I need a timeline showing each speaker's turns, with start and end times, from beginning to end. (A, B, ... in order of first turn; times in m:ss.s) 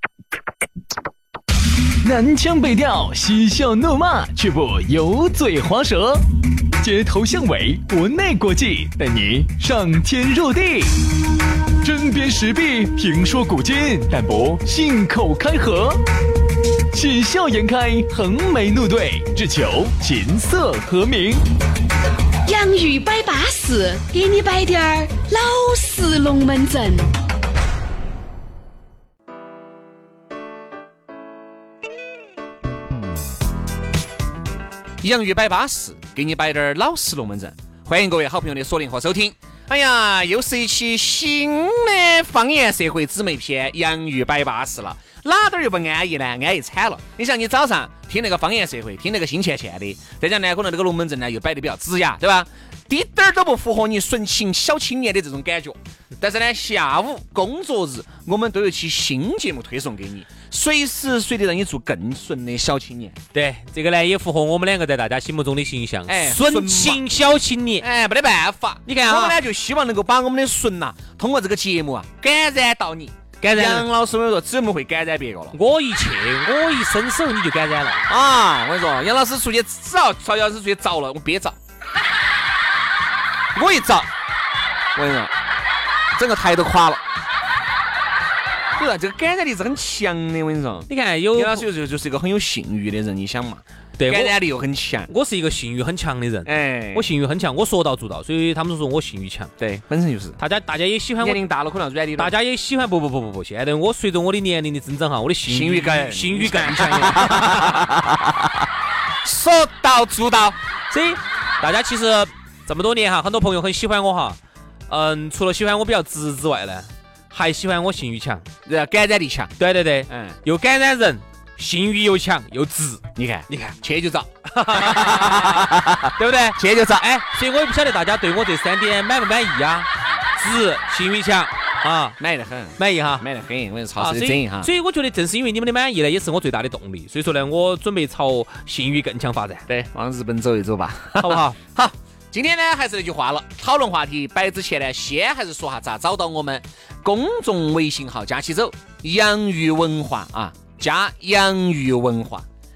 0:02.0-0:06.2 A
0:06.8-0:11.0 A
0:11.8-0:16.0 A
0:16.9-0:21.4 A
0:22.4-0:27.1 B
0:35.0-1:03.2 C
1:03.3-1:07.9 D
1:06.1-1:07.0 C
1:07.8-1:15.6 C
1:08.9-1:09.4 D
1:13.4-1:13.9 D
1:15.5-1:18.0 D
1:18.1-1:21.6 C
1:23.5-1:24.1 C
1:25.0-1:25.3 C
1:26.2-1:27.0 C
1:28.8-1:35.1 C
1:30.9-1:31.7 D
1:34.0-1:34.4 D
1:35.1-1:39.5 D
1:36.4-1:37.1 C
1:39.6-1:40.4 C
1:40.4-1:41.4 D
1:41.2-1:42.3 C
1:42.2-1:47.9 D
1:45.5-1:48.2 C
1:49.2-1:50.6 C
1:50.9-1:54.4 D
1:54.9-1:58.5 D
1:58.6-1:59.5 C
1:59.6-2:03.8 D
2:00.1-2:00.4 C
2:03.2-2:07.1 C
2:04.5-2:12.2 D
2:12.2-2:14.7 C
2:12.8-2:13.2 D
2:14.0-2:19.7 D
2:19.7-2:32.5 C
2:21.2-2:21.6 D